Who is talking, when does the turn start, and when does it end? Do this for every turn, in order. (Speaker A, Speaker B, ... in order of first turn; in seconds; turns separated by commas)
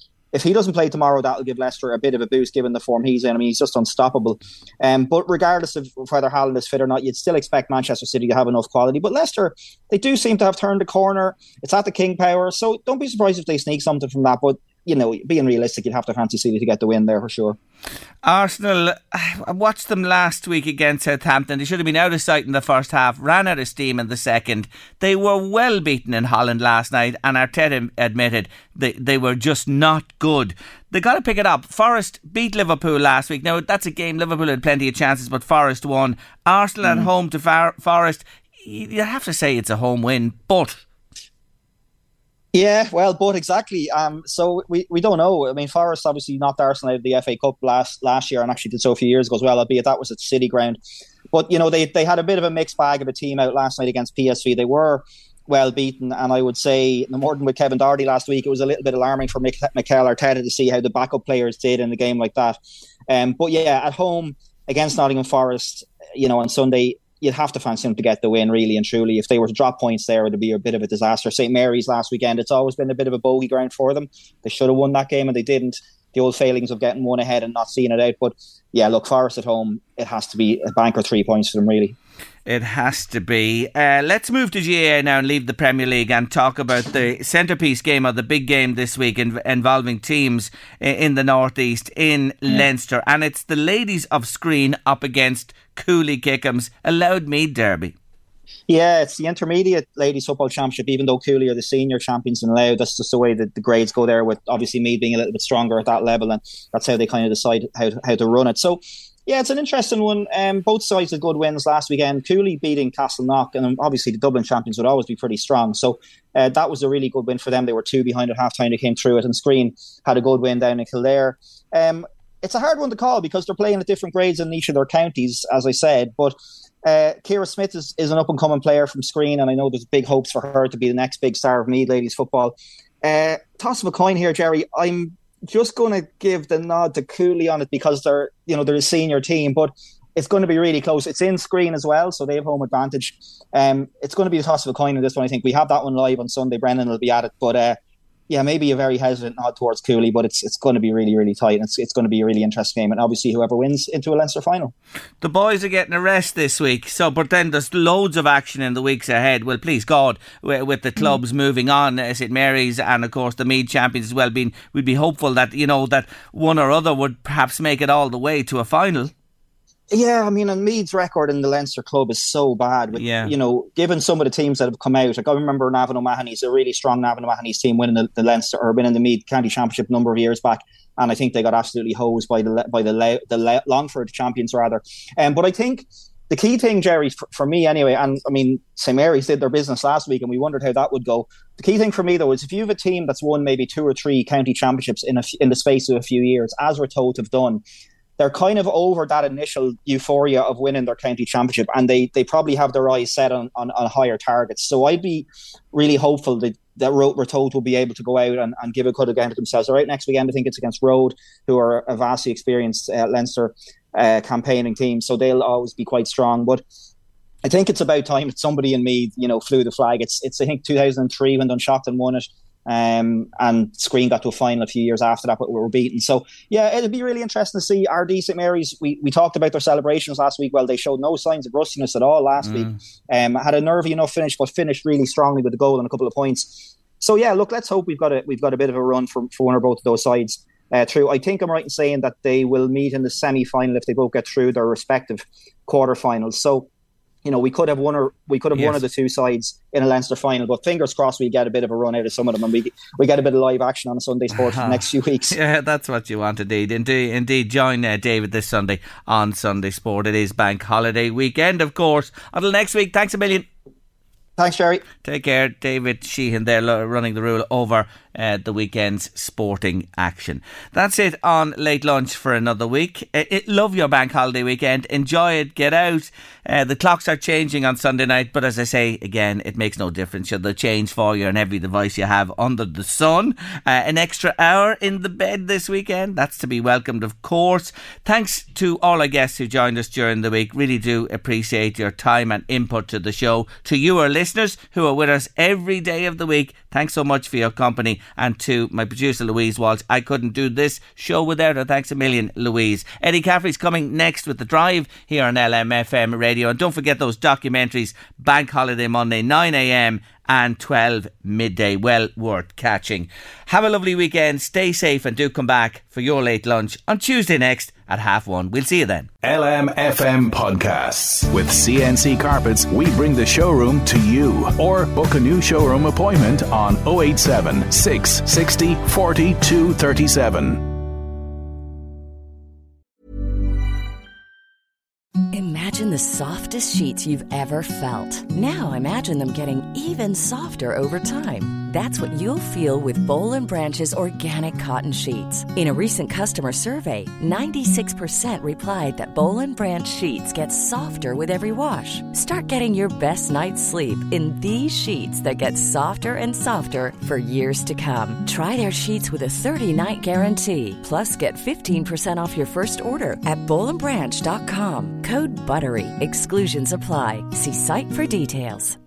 Speaker A: 0.3-17.6, Speaker B: 18.2-40.8, Speaker A: 42.5-50.8, Speaker A: 51.3-62.6, Speaker A: 63.1-82.0, Speaker B: 82.5-97.9, Speaker A: 98.7-147.8, Speaker A: 148.3-154.7, Speaker B: 155.2-169.1, Speaker A: 169.9-197.6, Speaker B: 172.9-173.3, Speaker A: 198.2-216.6, Speaker A: 217.4-246.7, Speaker B: 232.4-232.7, Speaker A: 247.2-255.3, Speaker B: 248.5-248.8, Speaker B: 254.4-263.5, Speaker A: 264.4-264.8, Speaker B: 265.0-319.1, Speaker C: 319.2-330.6, Speaker D: 335.3-368.8